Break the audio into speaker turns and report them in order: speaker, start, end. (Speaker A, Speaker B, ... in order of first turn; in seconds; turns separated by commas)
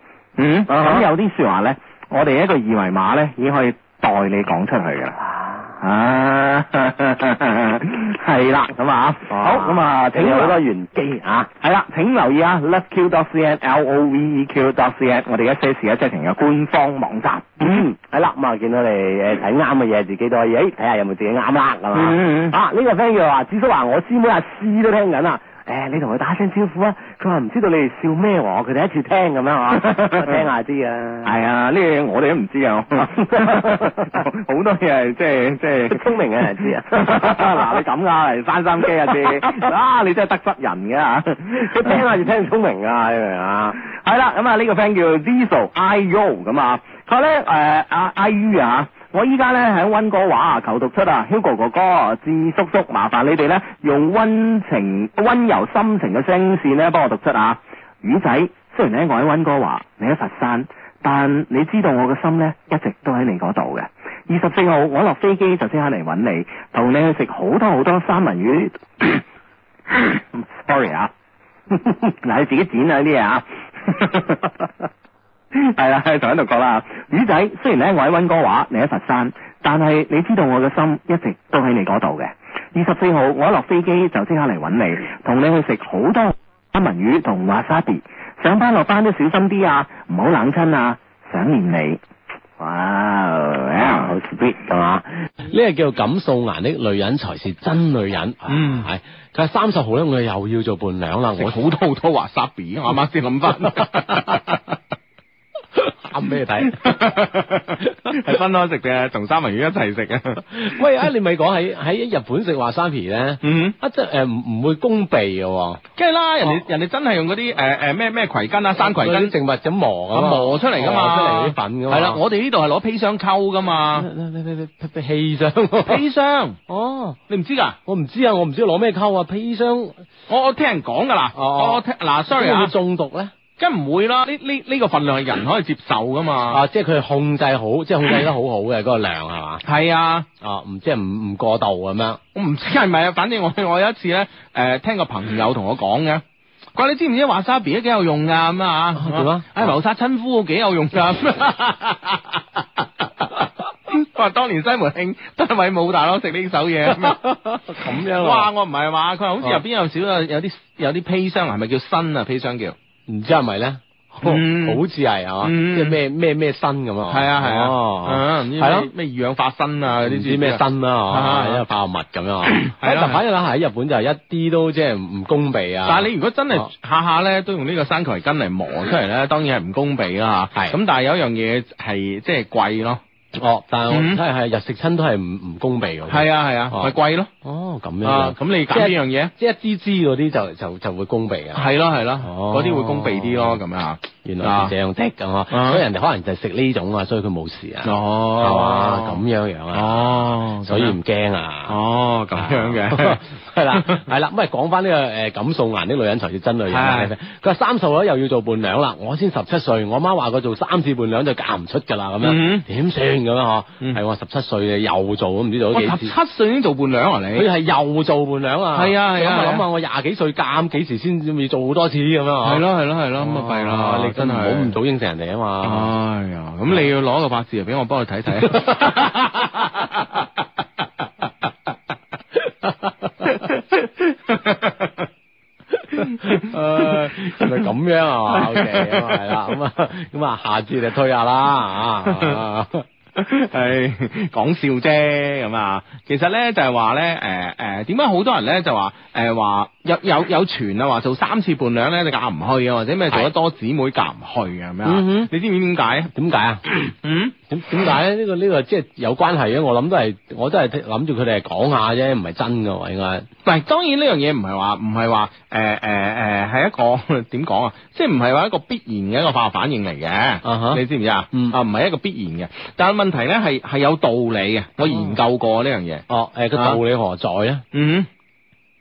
Speaker A: 0.4-5.2, Speaker B: 0.7-1.1, Speaker A: 5.8-10.6, Speaker B: 9.3-11.5, Speaker A: 11.6-17.9, Speaker B: 17.6-31.3, Speaker A: 21.9-22.6, Speaker A: 29.9-30.4, Speaker A: 31.2-36.0, Speaker B: 33.0-34.2, Speaker B: 35.9-37.7, Speaker A: 36.9-42.1, Speaker B: 41.5-43.8, Speaker A: 43.9-69.2, Speaker A: 69.9-71.1, Speaker A: 72.0-74.7, Speaker A: 75.5-92.0, Speaker A: 92.6-94.1, Speaker B: 93.8-95.1, Speaker C: 95.5-101.6, Speaker D: 98.5-98.9, Speaker D: 101.4-104.6, Speaker C: 106.1-106.8, Speaker D: 106.7-110.5, Speaker C: 110.7-115.8, Speaker D: 113.4-113.8, Speaker D: 116.0-119.3, Speaker C: 118.8-122.2, Speaker D: 120.1-124.1, Speaker C: 124.0-126.0, Speaker D: 125.9-126.6, Speaker C: 126.7-127.2, Speaker D: 127.3-127.8, Speaker C: 127.9-129.9, Speaker D: 130.3-132.7, Speaker C: 131.4-133.3, Speaker D: 133.6-136.6, Speaker C: 136.5-139.6, Speaker D: 139.7-140.3, Speaker C: 140.4-142.2, Speaker D: 142.3-146.2, Speaker D: 146.8-157.2, Speaker C: 149.0-149.7, Speaker C: 156.9-157.1, Speaker C: 157.8-158.5, Speaker D: 157.9-162.8, Speaker C: 163.1-168.9, Speaker D: 164.2-164.8, Speaker D: 165.4-166.0, Speaker D: 167.1-171.7, Speaker C: 170.1-176.7, Speaker D: 172.5-173.2, Speaker D: 175.8-183.0, Speaker C: 183.4-186.9, Speaker D: 183.9-184.2, Speaker D: 186.1-187.3, Speaker C: 187.4-191.6, Speaker D: 188.0-189.3, Speaker D: 191.6-194.7, Speaker C: 192.2-193.6, Speaker C: 194.2-197.9, Speaker D: 195.5-195.8, Speaker D: 197.8-199.2, Speaker C: 198.4-201.7, Speaker D: 199.7-201.0, Speaker D: 201.7-203.2, Speaker C: 202.4-216.1, Speaker D: 206.7-207.1, Speaker D: 212.2-212.7, Speaker D: 215.7-217.5, Speaker C: 217.4-222.6, Speaker D: 218.8-219.7, Speaker D: 222.4-224.8, Speaker C: 223.2-225.9, Speaker D: 225.6-229.8, Speaker D: 233.3-234.9, Speaker D: 236.1-237.6, Speaker C: 236.6-242.8, Speaker D: 238.3-239.5, Speaker D: 243.2-256.1, Speaker C: 254.8-255.3, Speaker C: 256.1-256.6, Speaker D: 257.0-257.4, Speaker C: 257.5-263.3, Speaker D: 263.4-276.1, Speaker C: 270.5-270.8, Speaker C: 276.1-277.6, Speaker D: 276.6-276.8, Speaker D: 277.7-278.1